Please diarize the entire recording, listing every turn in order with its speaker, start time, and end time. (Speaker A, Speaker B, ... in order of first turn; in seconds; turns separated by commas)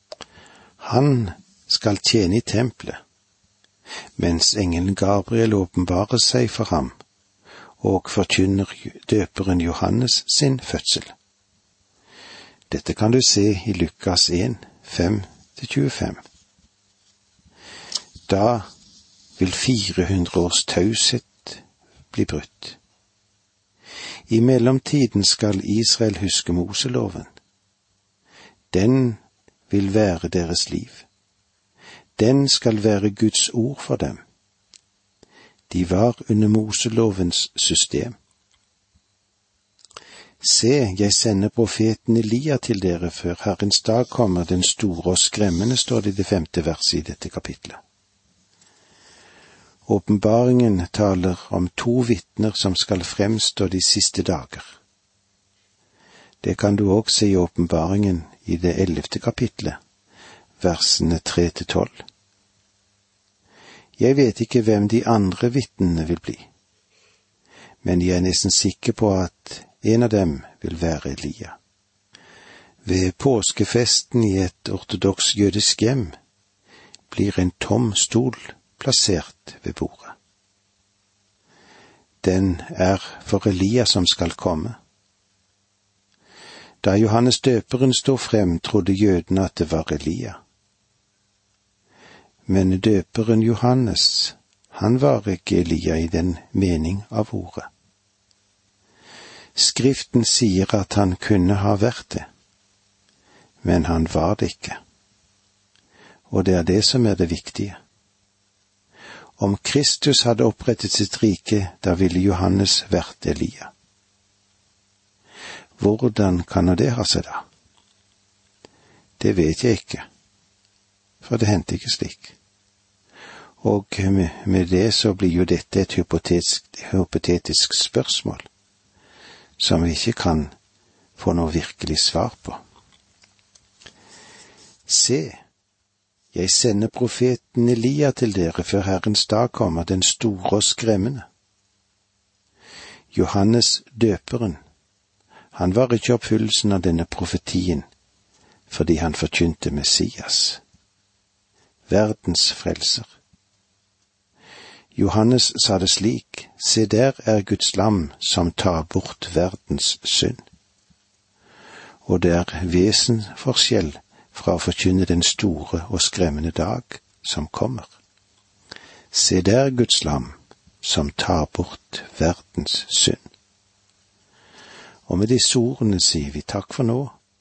Speaker A: 0.8-3.0, Speaker A: 4.2-6.9, Speaker A: 7.8-11.1, Speaker A: 12.7-16.2, Speaker A: 18.3-18.7, Speaker A: 19.4-21.6, Speaker A: 22.1-22.8, Speaker A: 24.3-27.3, Speaker A: 28.7-29.2, Speaker A: 29.7-31.1, Speaker A: 32.2-34.2, Speaker A: 35.7-38.1, Speaker A: 40.4-47.8, Speaker A: 49.9-54.7, Speaker A: 56.4-59.8, Speaker A: 60.6-62.0, Speaker A: 64.0-66.5, Speaker A: 67.8-71.6, Speaker A: 72.8-76.1, Speaker A: 77.1-80.1, Speaker A: 82.2-84.8, Speaker A: 86.8-90.4, Speaker A: 92.5-97.7, Speaker A: 99.5-102.3, Speaker A: 103.6-104.8, Speaker A: 106.3-107.8, Speaker A: 109.4-113.7, Speaker A: 115.8-117.4, Speaker A: 119.2-120.0, Speaker A: 121.2-122.3, Speaker A: 123.6-128.5, Speaker A: 129.6-130.5, Speaker A: 131.2-132.6, Speaker A: 134.9-135.4, Speaker A: 136.3-141.2, Speaker A: 143.1-144.6, Speaker A: 145.5-147.8, Speaker A: 148.7-150.6, Speaker A: 151.9-153.1, Speaker A: 154.9-160.4, Speaker A: 162.1-167.9, Speaker A: 169.1-173.2, Speaker A: 175.1-177.1